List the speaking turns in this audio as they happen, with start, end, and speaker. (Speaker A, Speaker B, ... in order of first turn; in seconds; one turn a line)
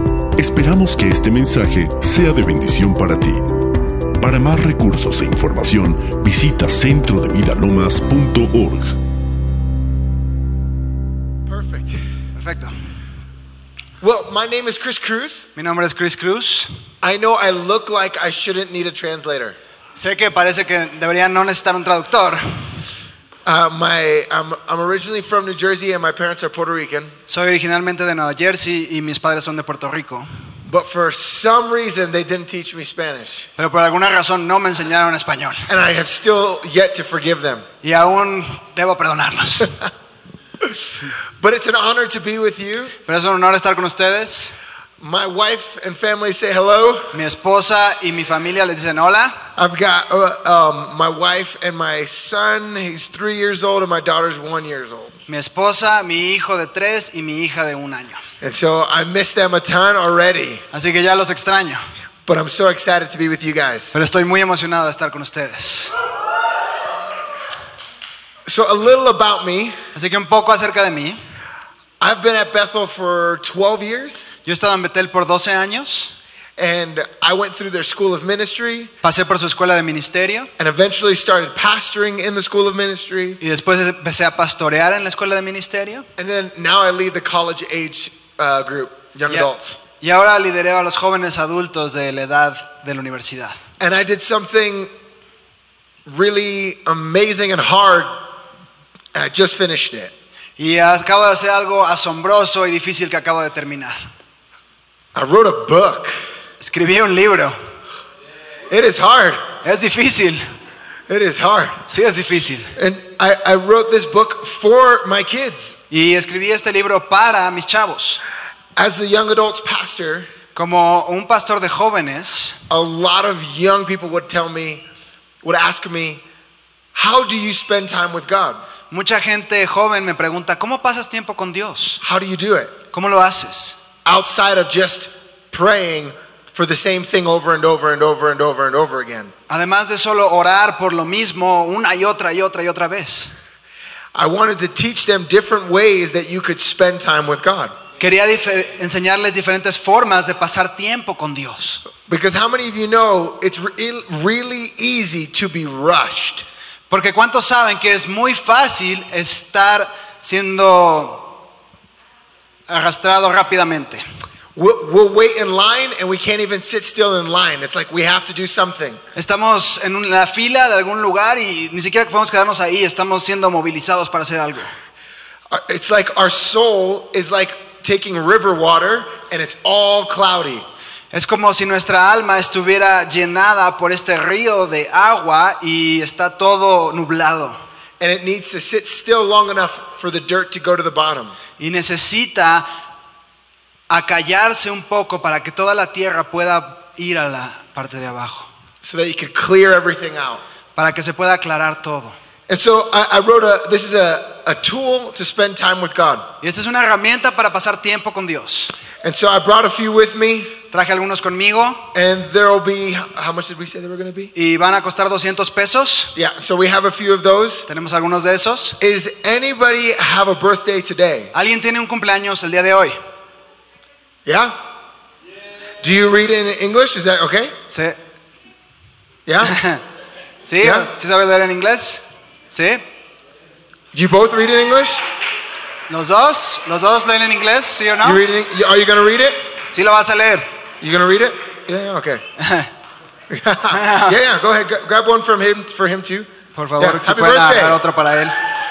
Speaker A: 0.3-3.5
Speaker A: 4.2-8.9
Speaker B: 11.5-12.0
Speaker C: 12.3-12.7
Speaker B: 14.0-15.4
Speaker C: 15.6-16.7
Speaker B: 17.0-19.6
Speaker C: 19.9-22.4
Speaker B: 23.4-27.1
Speaker C: 27.3-30.3
Speaker B: 30.6-33.5
Speaker C: 33.6-35.7
Speaker B: 35.7-37.6
Speaker C: 37.8-39.8
Speaker B: 41.4-42.9
Speaker C: 43.0-44.5
Speaker B: 45.0-47.2
Speaker C: 47.1-49.4
Speaker B: 49.5-55.2
Speaker C: 55.3-58.2
Speaker B: 58.4-60.6
Speaker C: 60.7-61.8
Speaker B: 62.2-63.9
Speaker C: 63.9-65.9
Speaker B: 68.5-69.8
Speaker C: 69.9-71.2
Speaker B: 72.0-74.3
Speaker C: 74.4-76.2
Speaker B: 76.6-78.9
Speaker C: 79.0-80.5
Speaker B: 80.6-83.4
Speaker C: 83.4-86.1
Speaker B: 86.2-89.8
Speaker C: 89.3-93.6
Speaker B: 93.8-94.9
Speaker B: 96.0-98.2
Speaker B: 99.1-100.1
Speaker C: 100.6-104.0
Speaker B: 105.1-106.1
Speaker C: 106.6-107.5
Speaker B: 108.7-109.4
Speaker C: 109.6-110.4
Speaker B: 111.1-111.8
Speaker C: 111.9-112.7
Speaker B: 112.8-115.8
Speaker C: 115.9-118.2
Speaker B: 118.8-120.3
Speaker C: 120.5-122.6
Speaker B: 122.7-124.8
Speaker B: 125.4-126.2
Speaker B: 126.9-128.6
Speaker C: 128.9-132.0
Speaker B: 132.0-132.7
Speaker C: 132.9-133.8
Speaker B: 134.0-139.3
Speaker C: 139.5-143.3
Speaker B: 144.1-147.7
Speaker C: 148.0-151.8
Speaker B: 152.0-156.4
Speaker C: 156.9-161.3
Speaker C: 162.7-164.0
Speaker B: 164.6-169.0
Speaker C: 169.1-174.7
Speaker B: 175.5-180.6
Speaker C: 181.1-187.6
Speaker B: 188.0-191.3
Speaker C: 191.6-192.7
Speaker C: 193.9-198.5
Speaker B: 198.8-200.4
Speaker C: 200.8-202.1
Speaker B: 202.5-206.3
Speaker C: 206.4-208.7
Speaker B: 209.0-210.6
Speaker C: 210.7-211.9
Speaker B: 211.9-214.3
Speaker C: 214.3-216.1
Speaker B: 216.1-217.7
Speaker C: 217.7-218.8
Speaker B: 218.8-221.3
Speaker C: 221.3-223.0
Speaker B: 224.2-224.5
Speaker B: 225.8-227.5
Speaker C: 227.7-228.0
Speaker B: 229.2-229.6
Speaker C: 229.4-229.8
Speaker C: 230.4-232.8
Speaker B: 230.6-230.9
Speaker B: 233.9-235.0
Speaker C: 235.9-238.2
Speaker B: 238.0-239.4
Speaker C: 239.6-240.4
Speaker B: 240.8-242.2
Speaker C: 242.4-242.7
Speaker B: 243.3-247.8
Speaker C: 243.7-244.2
Speaker C: 246.5-248.3